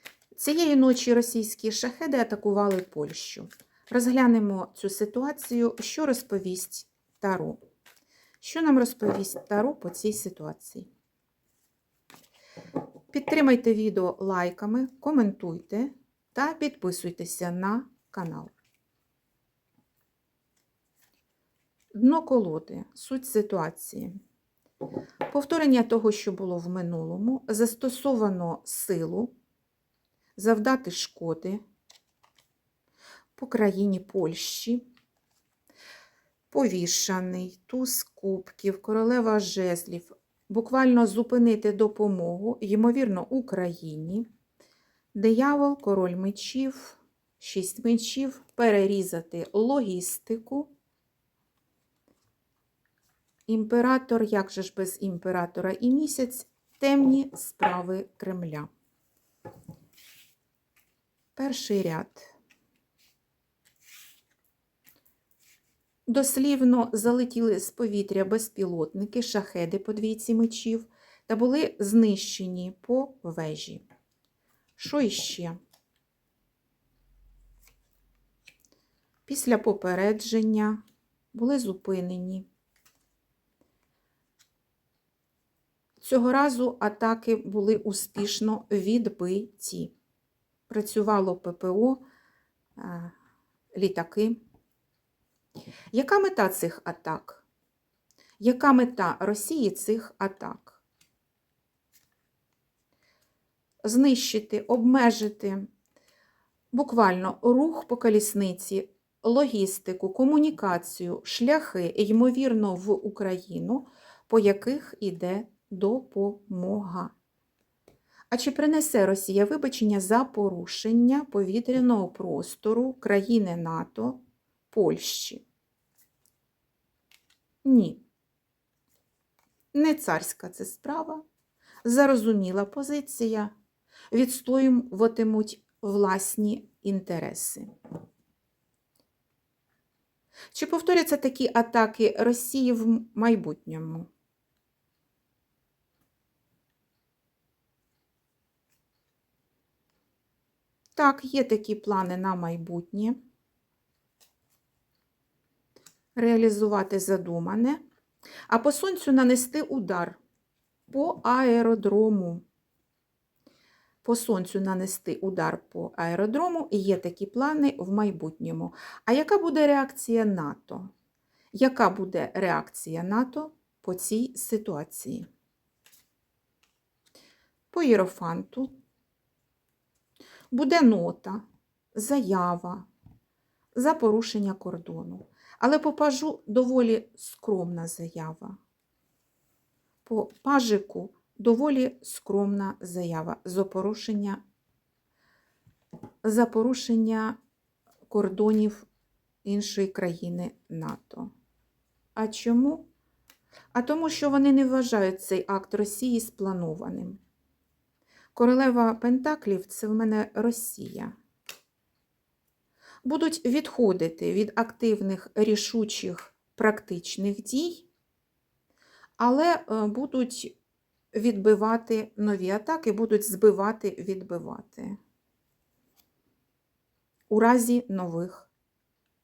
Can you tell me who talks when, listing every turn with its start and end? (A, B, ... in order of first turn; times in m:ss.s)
0:00.4-0:07.6 A
0:08.4-0:10.9 A
0:13.1-0:18.6 A
0:22.0-0:24.2 A
0:25.3-0:29.3 A
0:30.4-0:31.6 A
0:33.4-0:34.9 A
0:36.5-0:44.3 A
0:45.1-0:50.7 A
0:53.5-0:58.7 A
1:01.4-1:02.3 A
1:06.1-1:13.8 A
1:14.8-1:15.6 A
1:19.3-1:20.8 A
1:21.3-1:22.5 A
1:26.0-1:30.0 A
1:30.7-1:32.0 A
1:32.8-1:33.1 A
1:33.7-1:34.4 A
1:35.9-1:37.4 A
1:38.4-1:40.8 A
1:43.8-1:45.7 A
1:46.7-1:57.1 A
1:58.3-2:05.4 A
2:07.6-2:08.0 A
2:09.7-2:11.2 A
2:11.8-2:13.5 A
2:14.1-2:17.7 A
2:20.5-2:24.1 A
2:31.0-2:33.2 A
2:36.2-2:37.8 A
2:38.5-2:40.2 A
2:40.9-2:42.4 A
2:44.0-2:50.9 A
2:51.5-2:55.3 A
2:57.7-2:58.7 A
3:00.5-3:01.4 A
3:02.0-3:02.9 A
3:03.8-3:08.6 A
3:10.0-3:14.4 A
3:16.2-3:17.4 A
3:18.1-3:18.9 A
3:19.4-3:21.3 A
3:22.2-3:22.9 A
3:23.7-3:27.2 A
3:28.4-3:31.2 A
3:33.0-3:37.9 A
3:39.2-3:40.6 A
3:41.1-3:45.0 A
3:47.3-3:48.5 A